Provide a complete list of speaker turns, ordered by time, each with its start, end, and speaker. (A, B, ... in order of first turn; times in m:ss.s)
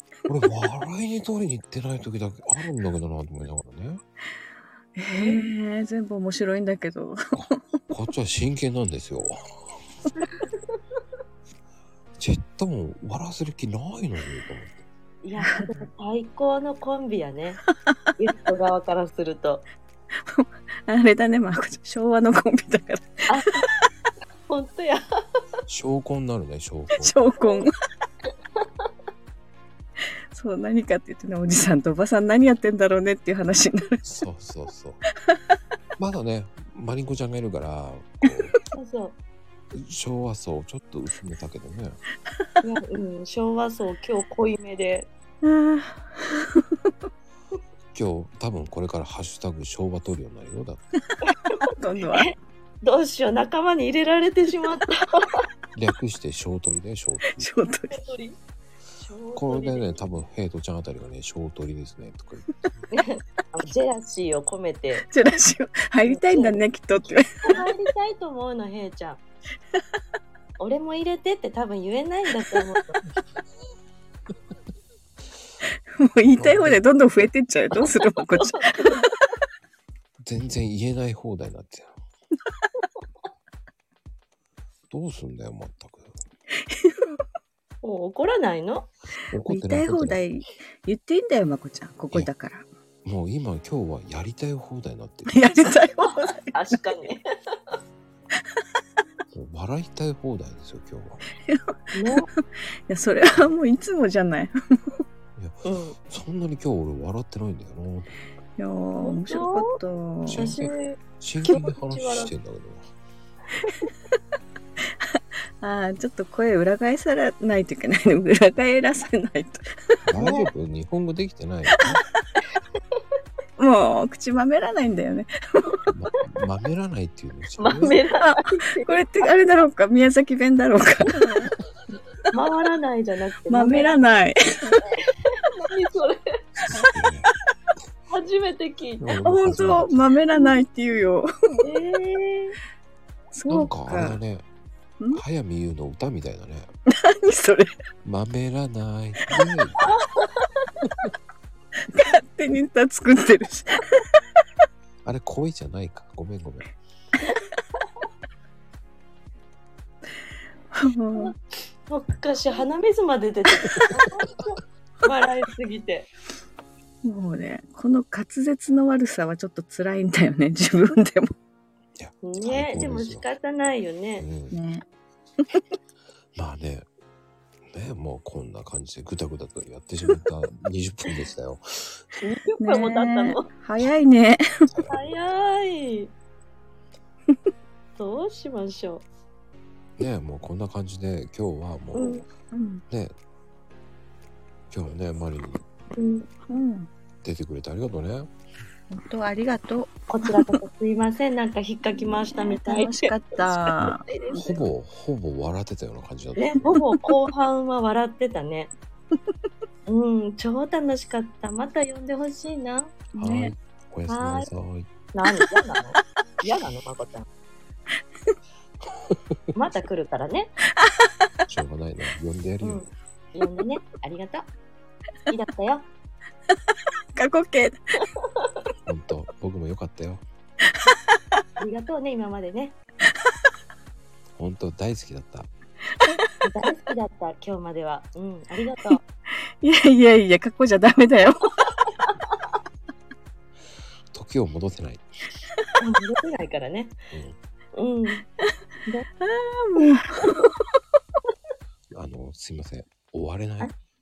0:00.2-0:04.0 A
0:05.0-0:07.8 B
0:07.3-0:09.4 A
0:10.3-0:10.7 C
0:12.2-0:14.8 A
0:15.2-0:17.6 C
0:15.4-0:15.7 B
0:18.2-0:19.6 C
0:20.2-0:23.7 B
0:23.3-0:23.6 C
0:24.5-0:25.0 C
0:25.7-0:27.1 A
0:27.0-0:27.7 B
0:27.4-0:27.7 C
0:30.3-0:34.1 B
0:34.0-0:35.0 A
0:36.0-0:38.6 A
0:38.7-0:39.2 C
0:39.7-0:42.0 A
0:42.6-0:45.1 C
0:45.4-0:46.9 B
0:47.9-0:50.8 A
0:51.2-0:55.4 C
0:51.6-0:52.3 B
0:55.7-0:57.5 A
0:57.2-0:58.0 B
0:57.9-0:58.4 C
0:59.0-1:00.2 C
0:59.4-1:02.5 A
1:02.9-1:05.1 C
1:05.1-1:07.7 B
1:06.1-1:06.6 C
1:07.4-1:09.2 C
1:10.6-1:13.0 C
1:16.0-1:19.1 B
1:16.4-1:16.8 A
1:17.8-1:19.1 C
1:20.2-1:22.0 A
1:24.9-1:26.1 A
1:26.7-1:27.2 B
1:27.8-1:28.9 C
1:29.3-1:30.2 A
1:29.5-1:32.6 B
1:33.0-1:35.4 A
1:35.3-1:36.8 B
1:36.0-1:37.8 C
1:39.3-1:41.2 A
1:41.4-1:45.0 B
1:41.9-1:42.3 C
1:45.4-1:48.2 A
1:45.6-1:46.0 C
1:48.6-1:50.5 B
1:49.0-1:49.8 C
1:50.3-1:52.8 A
1:50.3-1:52.3 C
1:53.6-1:53.9 C
1:55.0-2:00.0 B
2:00.1-2:02.0 A
2:00.2-2:00.5 C
2:01.7-2:02.0 B
2:03.6-2:05.8 B
2:05.9-2:08.0 A
2:07.6-2:09.0 C
2:08.2-2:11.6 B
2:12.3-2:14.0 C
2:13.5-2:14.8 B
2:14.8-2:16.4 C
2:16.6-2:17.3 A
2:18.1-2:19.1 C
2:19.0-2:20.1 A
2:19.2-2:21.6 B
2:21.6-2:22.6 C
2:23.3-2:24.2 B
2:23.5-2:24.4 A
2:25.1-2:26.7 A
2:26.9-2:27.7 B
2:28.0-2:30.0 A
2:29.8-2:30.7 C
2:31.9-2:34.1 B
2:35.0-2:36.7 A
2:37.8-2:38.0 C
2:40.7-2:41.3 B
2:41.1-2:46.1 C
2:47.0-2:51.3 B
2:52.0-2:53.2 A
2:52.2-2:54.2 C
2:54.2-2:54.6 A
2:54.5-2:54.8 B
2:56.3-2:56.8 A
2:57.7-3:02.0 A
3:02.2-3:03.5 C
3:02.6-3:04.7 B
3:04.7-3:05.1 A
3:04.9-3:06.1 C
3:08.0-3:09.0 C
3:10.0-3:12.2 A
3:11.9-3:12.2 C
3:12.5-3:12.8 B
3:12.9-3:13.1 A
3:14.7-3:15.6 A
3:16.0-3:16.3 C
3:16.5-3:16.9 B
3:17.2-3:18.3 A
3:18.9-3:20.6 B
3:20.1-3:24.6 C
3:22.4-3:24.0 B
3:24.3-3:26.6 A
3:26.3-3:28.7 C
3:29.9-3:33.0 C
3:33.1-3:33.5 B
3:33.2-3:34.9 A
3:34.1-3:34.5 C
3:35.1-3:37.3 C
3:39.5-3:40.6 C
3:41.5-3:42.9 A
3:42.6-3:44.5 C
3:45.3-3:45.9 C
3:47.1-3:48.0 B
3:48.2-3:48.6 C
3:48.8-3:50.2 A
3:51.6-3:52.8 C
3:54.4-3:55.5 A
3:56.0-3:56.3 B
3:56.4-3:59.0 C
3:59.0-4:01.5 B
4:02.1-4:02.3 C
4:04.1-4:05.0 A
4:05.8-4:07.1 C
4:07.7-4:08.2 C
4:09.2-4:10.4 B
4:11.9-4:13.7 A